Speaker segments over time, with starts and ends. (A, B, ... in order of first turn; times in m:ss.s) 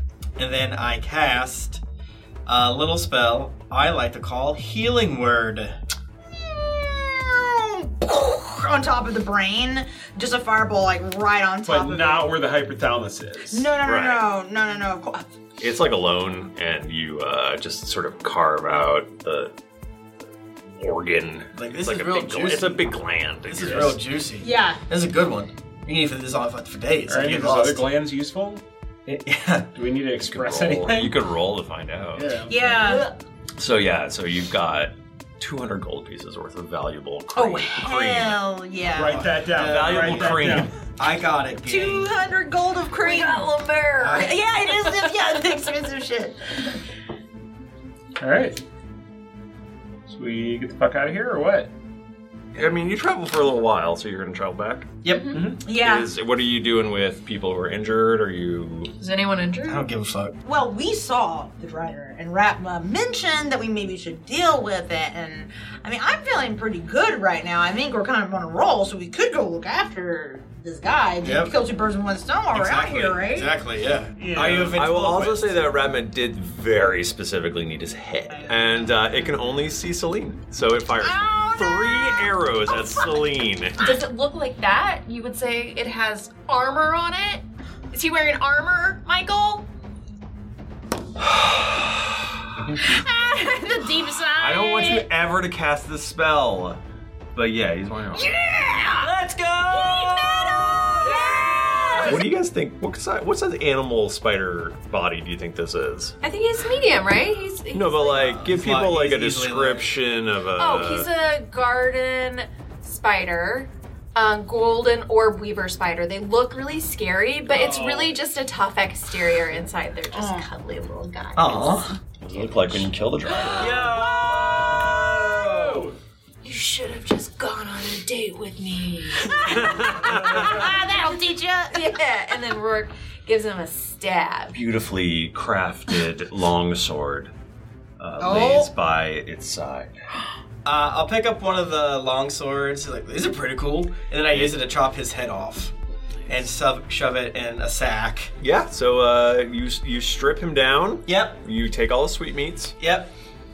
0:00.4-0:01.8 A
0:02.5-0:05.8 A
0:06.3-0:12.4 B
0:11.6-0:13.7 C
0:13.5-0:15.3 B
0:13.8-0:14.3 D
0:15.6-0:19.5 D
0:20.7-0:24.0 D
0:21.6-0:27.9 A
0:23.6-0:24.0 C
0:24.4-0:24.8 B
0:27.1-0:28.6 C
0:29.1-0:29.7 A
0:29.8-0:31.2 C
0:30.2-0:32.9 D
0:32.2-0:33.0 C
0:32.5-0:33.1 B
0:33.6-0:38.5 D
0:37.4-0:39.3 B
0:38.9-0:40.7 C
0:39.0-0:42.1 A
0:39.6-0:40.7 D
0:41.7-0:46.5 B
0:43.0-0:44.2 E
0:44.0-0:44.4 A
0:44.9-0:45.1 E
0:48.2-0:48.6 C
0:50.1-0:51.7 C
0:52.5-0:54.9 D
0:55.0-0:55.4 A
0:55.1-0:55.5 E
0:55.3-0:55.6 C
0:55.6-0:56.1 B
0:55.7-0:58.9 D
0:59.0-0:59.9 E
0:59.7-1:00.4 A
1:00.4-1:13.5 B
1:11.2-1:11.6 A
1:12.5-1:15.6 A
1:14.2-1:14.9 C
1:14.7-1:23.8 D
1:18.3-1:18.9 B
1:21.0-1:22.4 B
1:23.8-1:29.7 E
1:32.8-1:35.1 B
1:34.4-1:36.8 D
1:37.4-1:38.3 D
1:38.2-1:39.1 B
1:39.0-1:46.2 D
1:39.7-1:42.2 B
1:41.0-1:41.4 E
1:46.2-1:48.3 E
1:47.7-1:51.1 D
1:48.1-1:50.0 A
1:50.6-2:01.8 E
1:57.5-1:58.2 C
2:00.1-2:00.5 B
2:01.4-2:01.9 A
2:02.2-2:05.3 D
2:03.6-2:06.0 C
2:03.6-2:04.0 A
2:04.0-2:04.4 E
2:05.3-2:05.7 A
2:06.4-2:09.8 E
2:09.5-2:10.5 D
2:10.0-2:10.6 C
2:10.3-2:12.0 B
2:11.7-2:14.5 E
2:14.5-2:17.3 D
2:18.0-2:20.0 D
2:18.2-2:18.7 B
2:20.6-2:25.7 A
2:26.3-2:28.3 A
2:28.4-2:32.8 D
2:31.1-2:31.4 A
2:32.8-2:33.1 A